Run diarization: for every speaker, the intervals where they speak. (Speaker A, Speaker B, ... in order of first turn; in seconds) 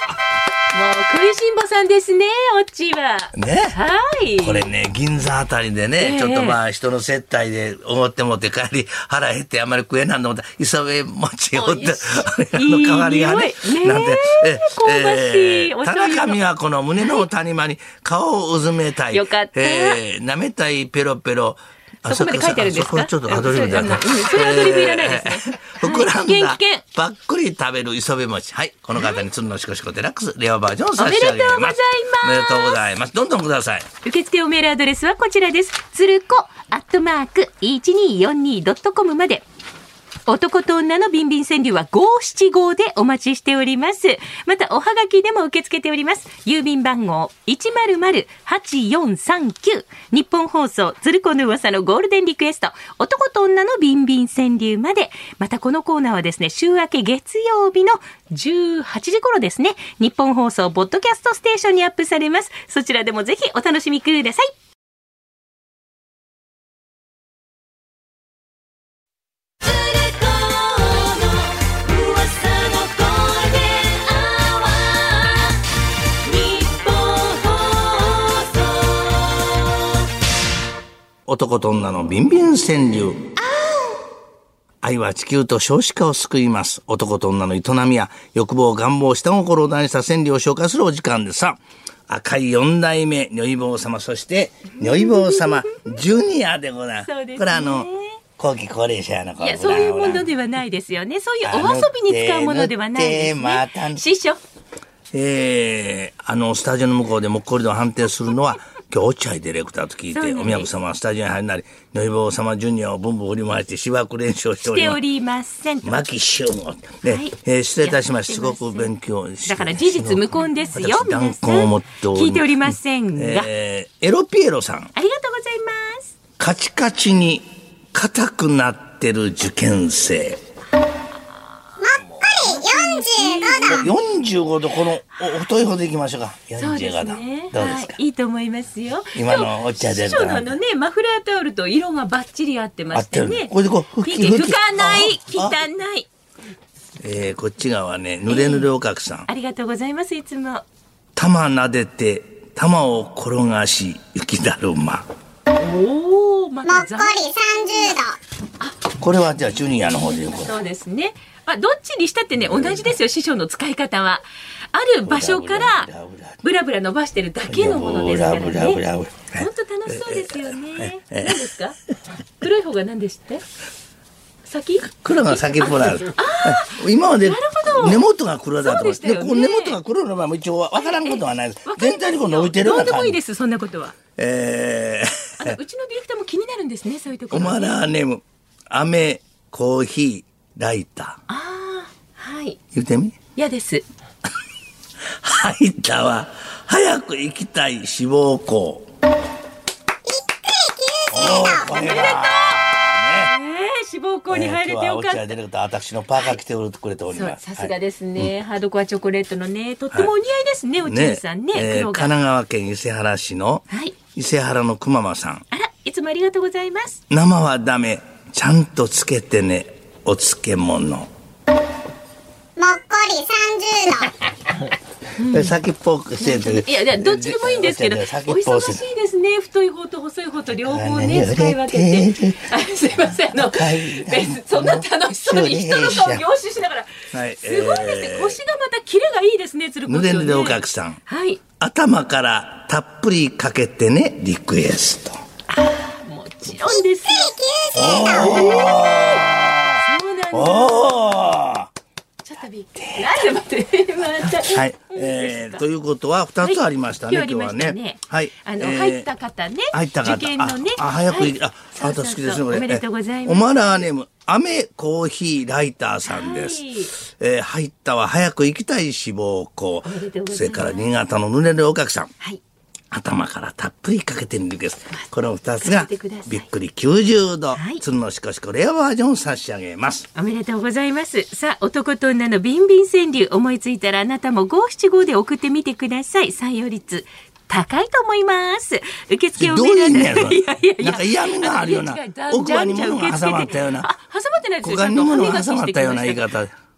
Speaker A: 0.7-4.7, 6.0-6.6, 11.5-16.4, 17.0-17.3, 19.1-20.0, 22.1-26.8, 29.0-29.2, 31.0-32.8, 34.0-39.4, 40.3-64.5, 69.6-75.7, 76.2-79.7, 83.4-84.0, 94.7-95.9, 97.0-98.2, 99.4-104.4, 110.1-110.7, 114.6-116.0, 117.0-118.9, 119.4-123.5, 124.9-126.2, 132.2-134.0, 136.6-146.1, 148.2-148.7, 149.3-150.7, 155.5-158.0, 159.9-165.9, 166.4-171.8, 172.4-173.4, 174.4-178.1, 178.6-179.8, 180.7-183.9, 185.4-187.8, 191.3-192.6, 193.3-193.8, 201.6-205.3, 207.1-212.1, 213.7-213.9, 215.5-217.0, 225.2-225.5, 226.2-241.4, 245.5-247.3, 247.9-249.3, 249.8-251.1, 252.2-255.7, 256.4-263.8, 266.1-266.9, 269.8-270.9, 275.6-276.4, 277.6-277.8, 280.1-296.3
Speaker B: 3.3-3.8, 4.4-33.9, 81.2-83.3, 84.8-100.3, 101.4-104.0, 105.1-115.0, 115.8-124.9, 126.4-130.4, 133.7-138.0, 139.1-140.6, 142.9-145.6, 147.0-149.3, 151.2-155.1, 159.0-160.6, 162.4-162.9, 165.1-166.4, 167.4-171.5, 174.9-183.2, 184.2-185.6, 187.3-191.2, 192.7-193.2, 195.2-198.9, 201.1-203.3, 204.3-208.3, 210.8-215.4, 217.1-221.1, 225.3-228.8, 230.6-232.5, 233.3-236.2, 237.1-238.4, 239.9-241.0, 241.6-245.2, 247.7-251.7, 252.8-253.2, 254.3-259.1, 259.7-272.1, 272.9-280.1, 289.4-293.9, 294.6-296.5
Speaker C: 131.8-133.8, 156.7-158.2, 200.1-202.1, 222.6-224.1, 247.1-248.9